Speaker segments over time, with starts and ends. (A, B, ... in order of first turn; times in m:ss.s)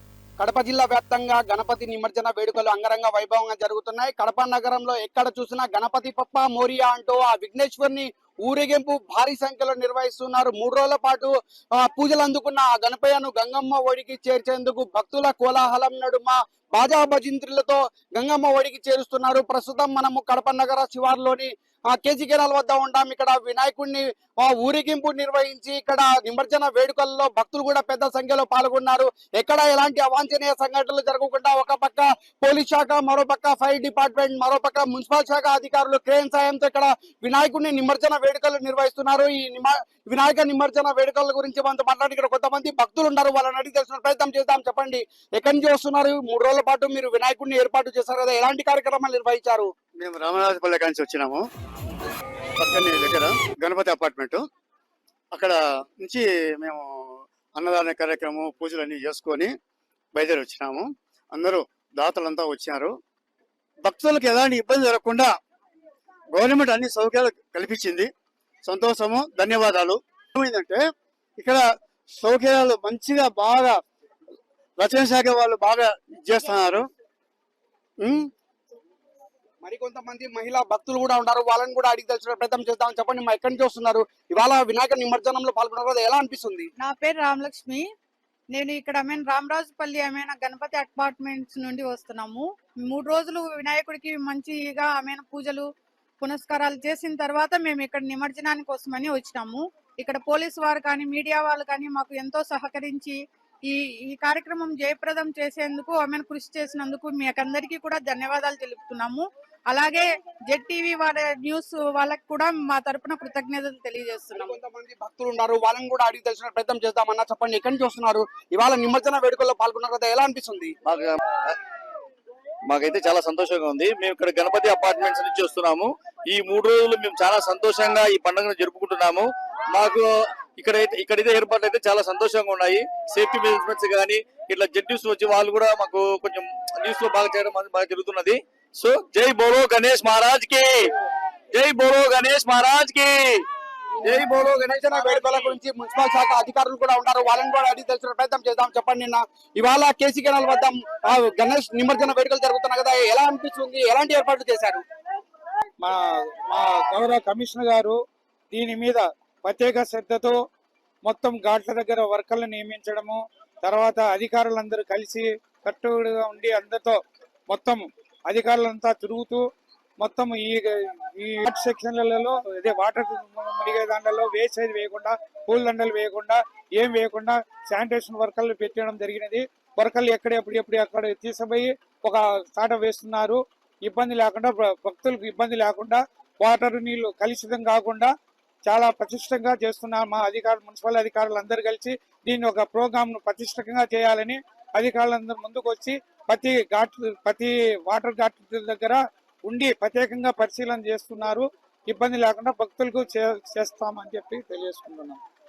0:00.4-0:49.7 A
0:50.0-0:51.4 B
0:52.6-0:54.4 B
0:55.3-0:59.5 B
1:00.2-1:03.0 B
1:03.8-1:05.3 B
1:06.3-1:08.1 B
1:08.7-1:10.8 B
1:11.4-1:11.6 B
1:12.2-1:13.8 B
1:14.8-1:16.9 B
1:18.0-1:18.3 B
1:19.6-1:26.7 A
1:26.8-1:27.8 C
1:28.5-1:35.7 C
1:36.2-1:54.6 C
1:54.4-2:00.8 A
2:00.9-2:01.6 D
2:02.7-2:10.1 D
2:10.6-2:20.9 D
2:21.5-2:23.4 D
2:24.0-2:34.8 A
2:24.0-2:24.7 D
2:35.8-2:38.0 E
2:38.5-2:40.4 E
2:41.0-2:47.0 E
2:47.5-2:49.4 E
2:50.0-3:08.1 E
3:08.7-3:25.2 E